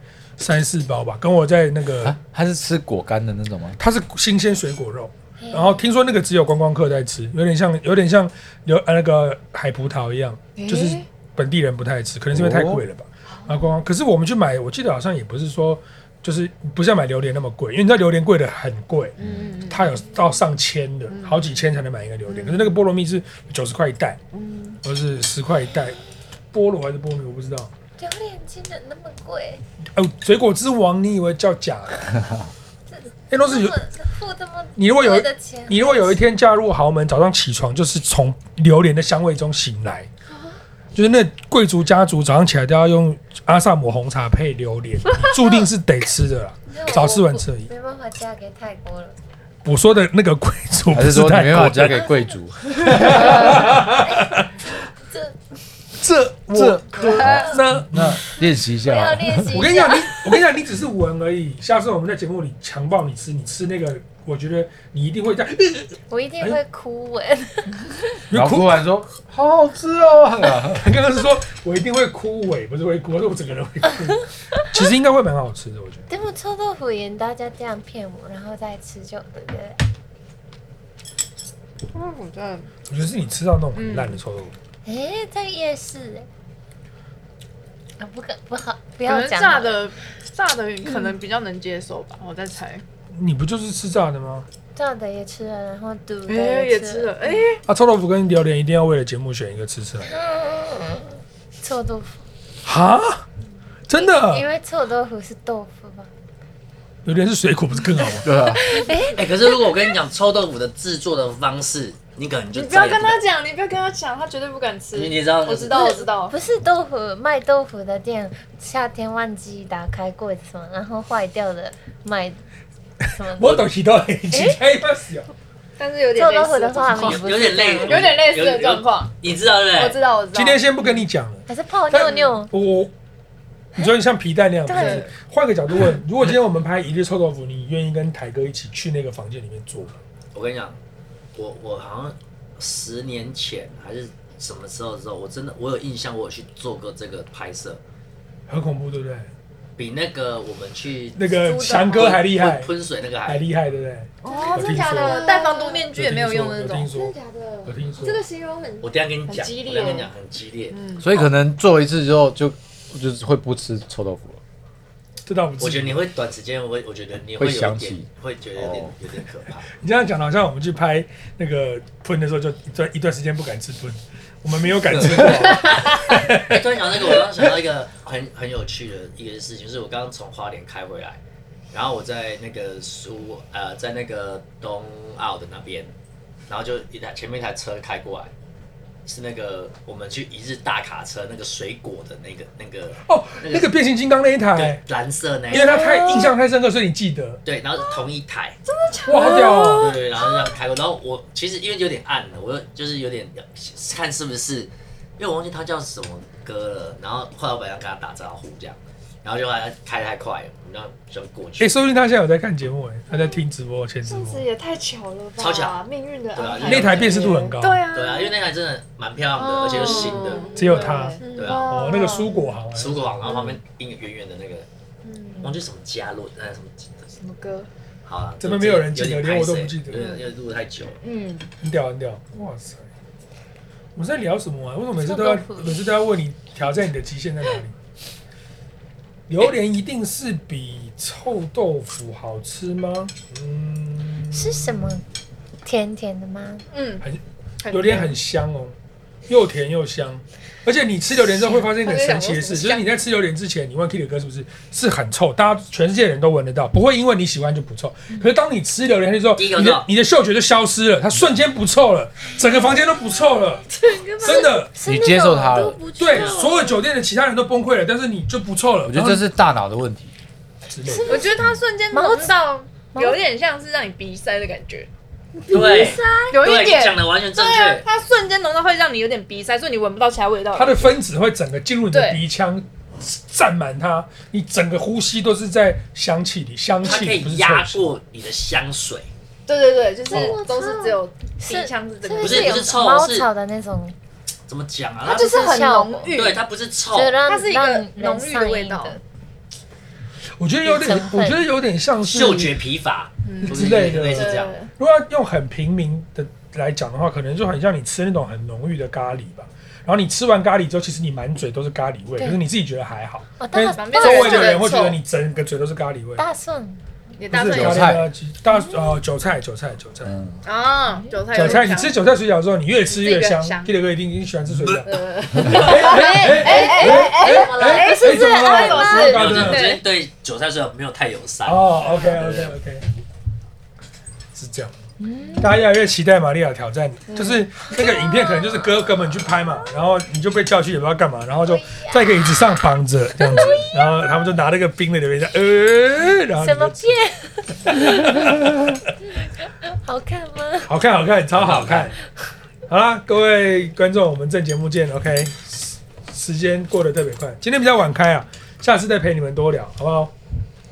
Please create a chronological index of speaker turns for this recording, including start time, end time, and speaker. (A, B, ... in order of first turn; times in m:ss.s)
0:00.4-0:02.2 A
0:02.0-0:03.8 B
0:03.8-0:19.2 A
0:05.4-0:05.8 C
0:10.6-0:11.0 D
0:12.3-0:12.8 B
0:19.2-0:20.0 D
0:19.7-0:24.2 A
0:21.1-0:21.5 D
0:22.3-0:22.8 D
0:24.3-0:24.8 D
0:24.8-0:26.0 A
0:26.5-0:27.7 A
0:28.0-0:29.6 C
0:30.0-0:32.2 A
0:32.9-0:36.2 C
0:33.3-0:33.8 A
0:34.8-0:40.1 A
0:41.0-0:47.7 A
0:46.7-0:49.2 C
0:49.6-0:52.1 A
0:50.9-0:53.8 B
0:52.8-0:54.5 A
0:53.0-0:54.2 C
0:55.1-0:55.4 C
0:56.0-0:58.3 A
0:56.5-0:59.6 B
0:57.0-0:57.6 C
0:58.7-1:00.4 C
0:59.5-1:06.6 A
1:06.1-1:07.9 C
1:08.3-1:08.8 A
1:08.3-1:10.9 B
1:10.8-1:16.0 A
1:16.1-1:19.8 C
1:21.9-1:22.7 D
1:22.9-1:24.6 A
1:23.8-1:24.2 D
1:24.8-1:26.3 C
1:28.0-1:29.8 C
1:29.0-1:32.8 D
1:33.1-1:34.5 A
1:34.8-1:37.5 C
1:36.3-1:37.6 D
1:37.7-1:40.1 A
1:40.0-1:42.2 C
1:42.6-1:43.2 A
1:43.9-1:44.5 A
1:43.9-1:46.1 C
1:47.0-1:48.6 A
1:48.2-1:48.8 B
1:48.4-1:49.6 C
1:49.2-1:53.2 E
1:52.5-1:56.4 D
1:54.9-1:56.0 E
1:56.3-2:02.4 C
2:03.1-2:03.7 C
2:03.3-2:05.3 A
2:04.3-2:04.6 C
2:05.8-2:07.3 D
2:06.1-2:08.1 C
2:06.9-2:10.0 E
2:07.8-2:09.1 D
2:09.8-2:11.1 D
2:10.3-2:12.9 A
2:11.5-2:12.5 C
2:13.8-2:20.0 A
2:14.7-2:15.0 C
2:14.7-2:15.1 D
2:20.3-2:20.8 E
2:21.4-2:27.8 E
2:28.5-2:29.3 A
2:29.8-2:33.5 E
2:31.2-2:32.7 A
2:31.3-2:32.3 D
2:33.3-2:35.3 A
2:34.2-2:36.9 D
2:34.3-2:35.9 F
2:35.9-2:38.2 A
2:36.8-2:39.0 F
2:38.8-2:40.8 E
2:39.3-2:40.1 D
2:40.7-2:41.3 D
2:41.0-2:44.4 B
2:45.2-2:46.0 A
2:45.6-2:49.7 E
2:47.4-2:48.1 B
2:48.6-2:48.9 B
2:49.8-2:57.2 A
2:54.9-3:01.2 E
3:01.7-3:05.9 E
3:06.5-3:08.3 E
3:09.1-3:13.8 E
3:13.0-3:14.8 A
3:14.5-3:15.9 E
3:15.5-3:17.4 A
3:15.5-3:16.3 C
3:15.6-3:16.3 D
3:17.4-3:18.6 E
3:17.8-3:18.0 D
3:18.7-3:20.5 D
3:19.1-3:20.0 A
3:19.6-3:31.8 E
3:31.6-3:34.5 A
3:34.0-3:38.4 D
3:35.4-3:35.8 E
3:36.3-3:37.3 E
3:36.6-3:37.8 A
3:37.9-3:40.5 E
3:39.5-3:42.5 D
3:39.8-3:42.0 F
3:40.6-3:43.5 A
3:41.3-3:41.9 E
3:42.7-3:44.7 E
3:43.3-3:43.6 D
3:45.0-3:45.6 D
3:45.4-3:47.1 E
3:47.2-3:47.7 D
3:48.1-3:51.0 E
3:48.4-3:50.2 A
3:51.0-3:51.5 D
3:51.6-3:52.9 A
3:54.0-3:57.8 A
3:55.0-3:55.8 C
3:59.3-4:05.0 A
4:04.3-4:05.0 C
4:05.6-4:06.6 C
4:06.7-4:07.0 D
4:07.0-4:08.8 A
4:07.6-4:08.1 D
4:09.3-4:23.7 A
4:11.7-4:12.9 D
4:19.4-4:19.9 E
4:23.8-4:24.7 F
4:24.2-4:24.7 A
4:24.3-4:26.4 C
4:24.8-4:25.9 B
4:25.5-4:26.8 F
4:26.0-4:29.3 A
4:28.9-4:30.1 B
4:30.7-4:31.4 A
4:30.8-4:32.4 C
4:31.1-4:34.9 D
4:32.9-4:33.2 C
4:35.5-4:36.4 F
4:35.5-4:37.9 E
4:36.3-4:41.0 D
4:40.5-4:48.0 A
4:41.9-4:42.2 D
4:46.8-4:49.1 E
4:49.5-4:52.8 D
4:50.1-4:50.8 C
4:50.1-4:51.0 F
4:51.4-4:54.0 C
4:52.2-4:53.3 E
4:54.5-4:55.5 E
4:55.0-4:56.4 D
4:55.1-4:56.2 C
4:56.1-4:57.2 E
4:56.9-4:59.0 C
4:57.2-4:59.0 D
5:00.4-5:02.6 A
5:00.6-5:01.4 C
5:02.0-5:04.6 E
5:03.2-5:04.7 D
5:03.4-5:16.3 A
5:12.2-5:12.4 C
5:13.4-5:14.7 C
5:13.6-5:15.0 D
5:16.2-5:16.8 C
5:17.2-5:18.0 D
5:17.3-5:20.2 A
5:17.4-5:18.1 B
5:20.1-5:20.4 B
5:20.4-5:22.0 D
5:21.3-5:29.8 A
5:22.9-5:23.7 D
5:24.8-5:29.8 D
5:25.7-5:29.0 F
5:28.9-5:32.6 E
5:31.4-5:32.9 A
5:34.4-5:34.8 A
5:35.0-5:35.7 C
5:35.4-5:46.9 A
5:37.1-5:37.4 D
5:37.7-5:38.5 C
5:41.4-5:42.0 C
5:43.2-5:44.0 C
5:46.4-5:48.6 C
5:47.6-5:48.8 A
5:49.2-5:50.8 C
5:50.7-5:52.0 A
5:51.4-5:51.8 E
5:51.5-5:51.8 B
5:52.7-6:00.1 A